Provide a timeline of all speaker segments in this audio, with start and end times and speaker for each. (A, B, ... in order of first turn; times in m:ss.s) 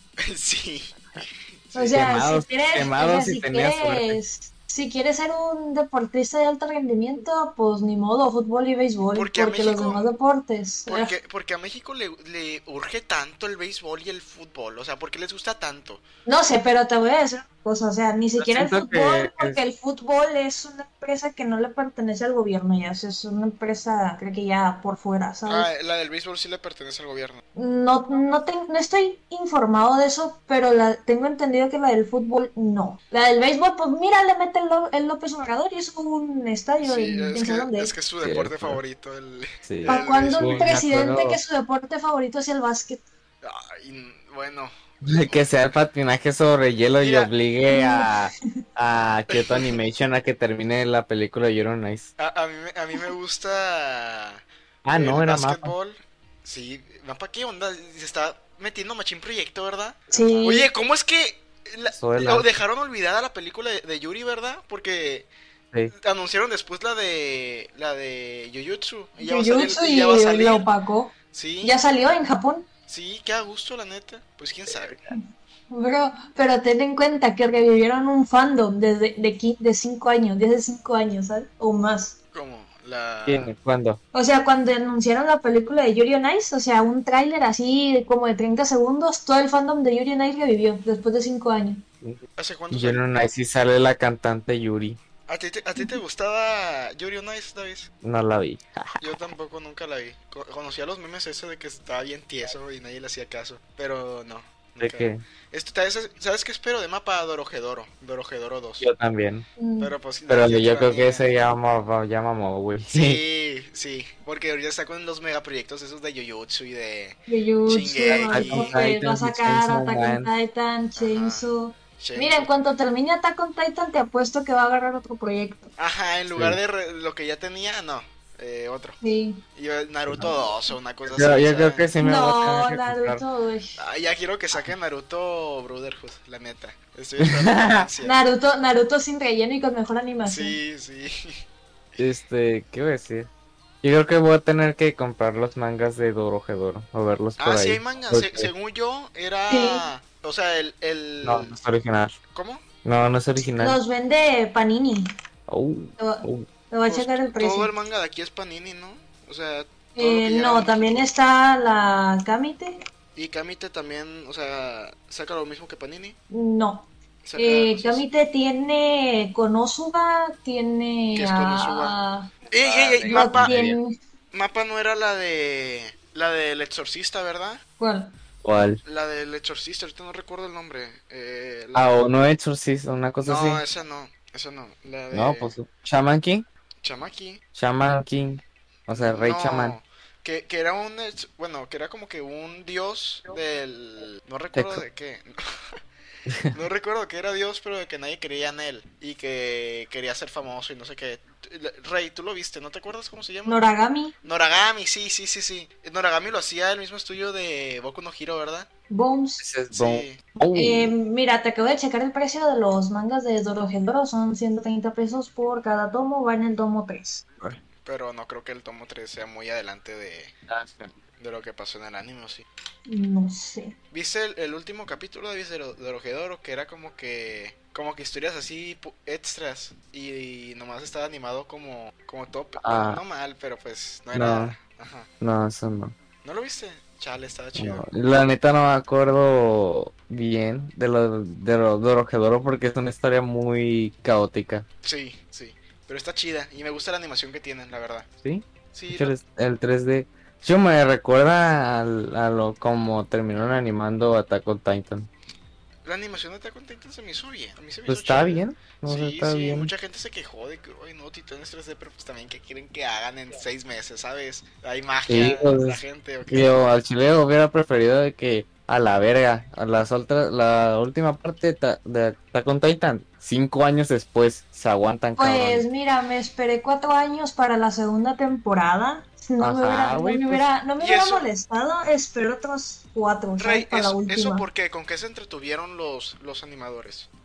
0:00.2-0:02.1 A
0:01.7-0:11.1 B
0:01.9-0:04.2 C
0:09.1-0:10.0 A
0:10.9-0:16.0 A
0:16.2-0:25.7 B
0:18.4-0:19.6 C
0:25.4-0:27.4 A
0:27.6-0:37.9 B
0:36.8-0:40.7 A
0:38.2-0:38.8 C
0:39.7-0:41.4 C
0:39.8-0:43.0 B
0:43.4-0:45.5 A
0:45.0-0:52.1 C
0:47.0-0:47.3 A
0:47.7-0:48.2 B
0:49.3-0:49.8 A
0:52.2-1:05.3 A
0:54.8-0:55.7 C
1:00.1-1:00.7 B
1:02.0-1:02.5 C
1:06.0-1:10.6 A
1:09.2-1:12.6 B
1:11.3-1:11.8 A
1:12.9-1:15.0 A
1:14.7-1:15.0 C
1:15.1-1:22.1 B
1:22.3-1:23.5 A
1:23.2-1:24.0 C
1:24.1-1:31.8 B
1:32.0-1:35.0 C
1:32.4-1:33.1 A
1:35.3-1:37.9 A
1:38.0-1:39.1 C
1:39.0-1:48.8 A
1:44.8-1:45.2 C
1:48.8-1:49.5 C
1:49.6-1:49.9 B
1:49.8-1:51.3 A
1:50.3-1:53.2 C
1:52.9-1:58.8 A
1:57.3-2:05.7 B
1:58.1-2:00.3 C
2:01.0-2:01.4 A
2:02.0-2:02.5 A
2:05.8-2:09.0 A
2:06.3-2:06.6 C
2:09.0-2:09.4 B
2:09.6-2:11.8 A
2:11.1-2:13.2 C
2:12.0-2:13.8 B
2:13.8-2:18.2 A
2:17.2-2:17.9 C
2:18.0-2:20.6 B
2:20.2-2:21.4 A
2:22.0-2:23.3 C
2:23.8-2:28.5 C
2:27.4-2:31.5 A
2:29.5-2:29.8 B
2:31.2-2:32.1 C
2:32.3-2:32.6 A
2:32.8-2:33.8 C
2:33.6-2:35.1 B
2:35.5-2:36.5 C
2:36.0-2:37.7 B
2:36.8-2:41.1 A
2:40.0-2:42.8 B
2:43.1-2:46.2 A
2:46.3-2:52.3 B
2:47.2-2:48.0 A
2:51.1-2:52.0 A
2:52.5-2:53.6 A
2:52.5-2:53.8 C
2:53.1-2:53.9 B
2:54.3-2:57.6 A
2:57.8-2:58.1 B
2:58.4-2:58.8 C
2:58.8-3:02.0 A
3:01.7-3:03.6 C
3:03.2-3:05.5 A
3:05.1-3:06.4 C
3:06.8-3:07.4 A
3:07.5-3:09.8 C
3:08.9-3:15.3 A
3:14.5-3:14.8 C
3:16.3-3:16.5 C
3:16.5-3:23.6 A
3:23.4-3:24.1 B
3:24.2-3:28.7 A
3:28.9-3:29.4 B
3:29.4-3:30.9 C
3:29.7-3:30.2 A
3:30.5-3:37.2 B
3:37.8-3:40.3 A
3:40.5-3:40.9 C
3:41.2-3:42.4 A
3:42.9-3:43.8 B
3:43.9-3:55.1 A
3:52.6-3:53.0 C
3:54.1-3:54.5 C
3:55.2-3:55.9 C
3:56.2-3:57.8 A
3:57.6-4:04.6 C
4:04.8-4:08.1 A
4:08.2-4:15.1 C
4:08.7-4:09.1 A
4:13.3-4:13.6 A
4:15.8-4:26.6 A
4:17.9-4:19.7 C
4:25.1-4:35.7 C
4:35.2-4:44.4 B
4:39.4-4:40.4 C
4:40.8-4:41.3 A
4:43.4-4:47.1 A